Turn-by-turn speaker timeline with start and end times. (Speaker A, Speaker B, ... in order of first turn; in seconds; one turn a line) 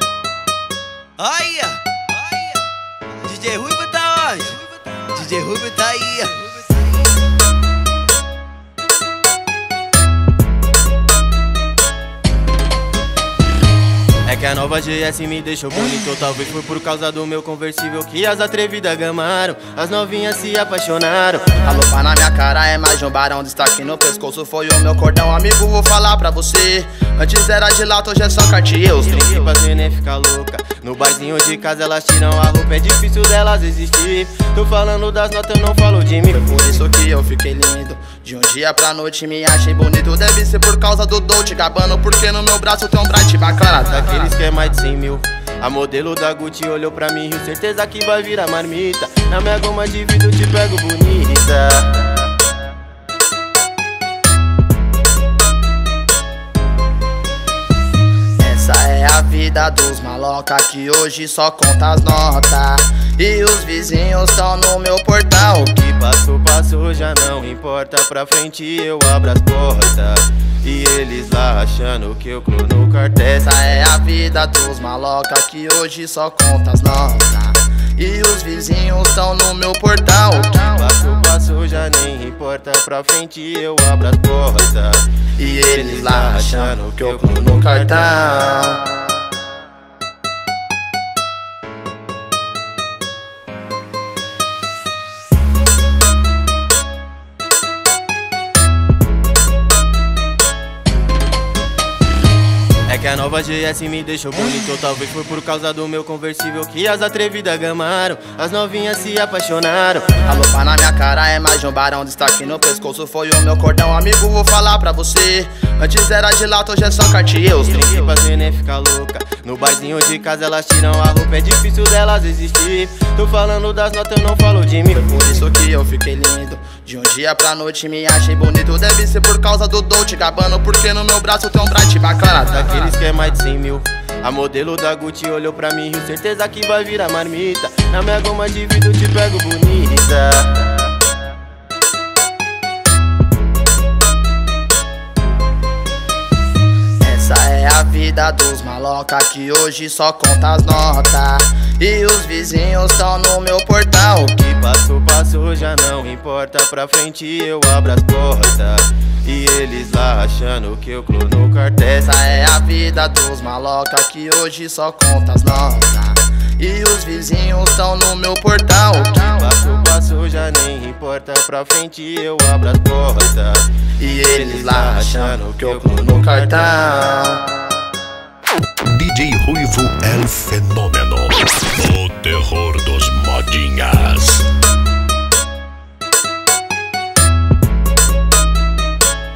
Speaker A: 1.2-2.6
Speaker A: 3.2-6.8
Speaker A: 14.3-21.8
Speaker B: 21.6-29.6
Speaker A: 29.0-36.6
Speaker B: 36.3-44.4
Speaker A: 43.8-52.5
Speaker B: 58.4-65.8
Speaker A: 65.7-73.7
Speaker B: 73.4-81.0
Speaker A: 80.3-88.3
Speaker B: 85.4-89.2
Speaker A: 102.9-110.3
Speaker B: 110.3-118.2
Speaker A: 117.6-125.1
Speaker B: 124.9-133.0
Speaker A: 132.3-140.9
Speaker B: 147.0-154.4
Speaker A: 154.4-162.2
Speaker B: 162.0-169.5
Speaker A: 168.9-176.9
Speaker B: 174.0-177.8
Speaker C: 178.9-184.5